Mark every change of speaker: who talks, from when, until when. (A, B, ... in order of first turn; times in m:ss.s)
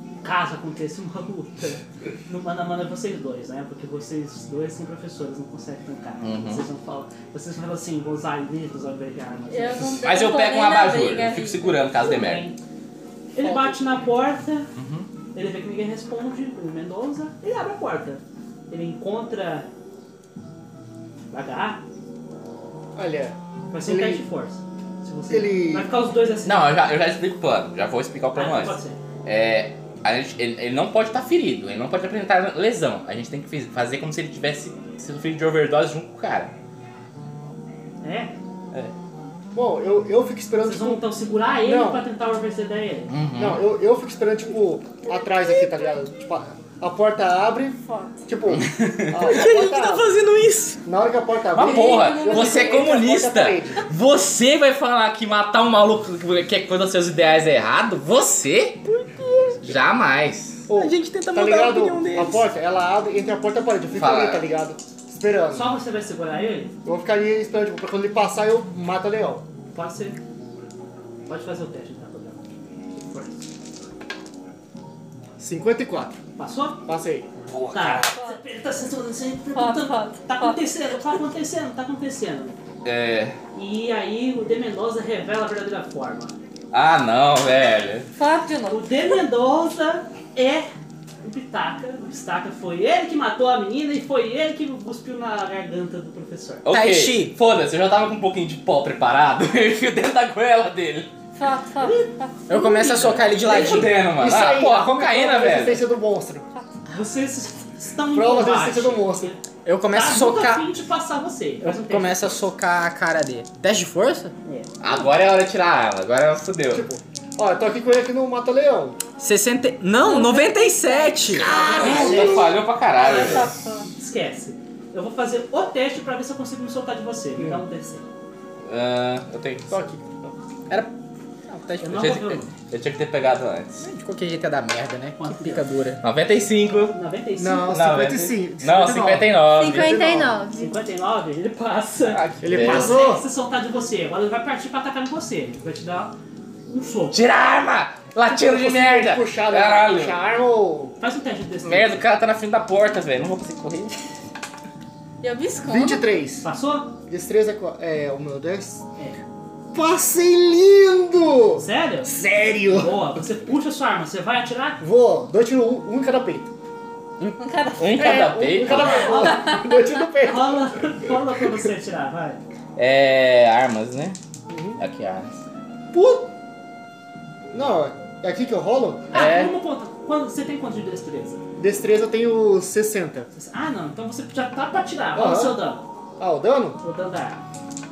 0:00.2-0:10.0 A
0:06.2-0:06.6 B
0:09.5-0:11.9 C
0:10.0-0:12.5 B
0:12.0-0:12.6 A
0:13.3-0:14.7 A
0:13.4-0:13.8 D
0:14.8-0:15.1 B
0:15.3-0:19.7 A
0:21.3-0:21.8 A
0:23.0-0:24.2 D
0:23.7-0:26.7 A
0:25.3-0:25.9 D
0:26.4-0:36.5 B
0:28.3-0:29.0 A
0:38.0-0:38.3 A
0:39.5-0:41.0 D
0:40.6-0:43.1 A
0:41.6-0:42.1 D
0:43.1-0:43.6 B
0:43.4-0:50.1 D
0:47.8-0:48.2 C
0:48.5-0:49.3 B
0:49.2-0:50.8 E
0:50.8-0:53.8 D
0:51.5-0:58.8 B
0:51.6-0:52.9 C
0:58.8-0:59.7 E
0:59.6-1:00.7 B
1:00.7-1:05.7 D
1:00.8-1:02.5 E
1:04.0-1:04.5 B
1:05.5-1:06.8 A
1:06.8-1:09.5 D
1:09.7-1:10.2 A
1:11.3-1:12.4 A
1:13.0-1:13.5 A
1:15.4-1:16.2 D
1:16.4-1:16.9 A
1:16.9-1:17.3 D
1:17.5-1:18.0 B
1:17.7-1:22.6 A
1:19.5-1:20.7 C
1:22.8-1:23.4 B
1:23.5-1:26.4 A
1:26.7-1:28.1 B
1:28.2-1:28.9 C
1:28.7-1:30.7 A
1:31.2-1:36.6 A
1:36.6-1:41.1 B
1:36.7-1:37.4 E
1:41.4-1:42.4 C
1:41.8-1:43.9 A
1:42.5-1:43.9 E
1:43.4-1:45.9 B
1:43.7-1:46.5 D
1:46.9-1:52.4 A
1:48.1-1:49.3 D
1:49.6-1:50.7 E
1:51.6-1:54.3 E
1:54.8-1:56.9 B
1:56.7-1:59.0 D
1:59.2-2:01.6 E
2:00.0-2:01.8 C
2:01.4-2:03.5 B
2:01.5-2:08.1 A
2:01.5-2:02.6 D
2:03.0-2:03.9 C
2:08.7-2:09.8 B
2:09.7-2:10.3 D
2:11.5-2:12.2 E
2:11.8-2:12.4 A
2:11.9-2:13.8 B
2:13.8-2:16.0 E
2:15.2-2:15.6 A
2:16.0-2:17.0 B
2:16.9-2:17.8 A
2:17.4-2:20.4 D
2:17.7-2:20.0 B
2:19.5-2:20.8 C
2:20.6-2:26.2 A
2:22.0-2:23.0 B
2:22.4-2:23.2 D
2:26.7-2:27.2 A
2:27.1-2:30.2 B
2:28.3-2:31.0 D
2:31.0-2:32.0 A
2:31.6-2:34.0 B
2:35.2-2:36.1 C
2:35.6-2:36.5 D
2:36.4-2:37.0 A
2:37.1-2:38.8 D
2:39.7-2:43.1 D
2:41.6-2:44.8 A
2:44.8-2:46.5 D
2:47.4-2:48.2 C
2:47.8-2:49.4 B
2:47.8-2:50.8 D
2:48.6-2:49.6 A
2:49.4-2:49.8 C
2:50.2-2:52.4 A
2:52.8-2:54.2 B
2:54.5-2:54.8 D
2:54.8-2:55.3 B
2:55.9-2:56.3 D
2:57.5-2:59.1 D
2:59.1-3:01.4 A
2:59.1-2:59.6 B
3:01.6-3:03.3 D
3:03.3-3:05.8 A
3:05.2-3:05.6 D
3:06.2-3:06.8 D
3:06.8-3:07.4 A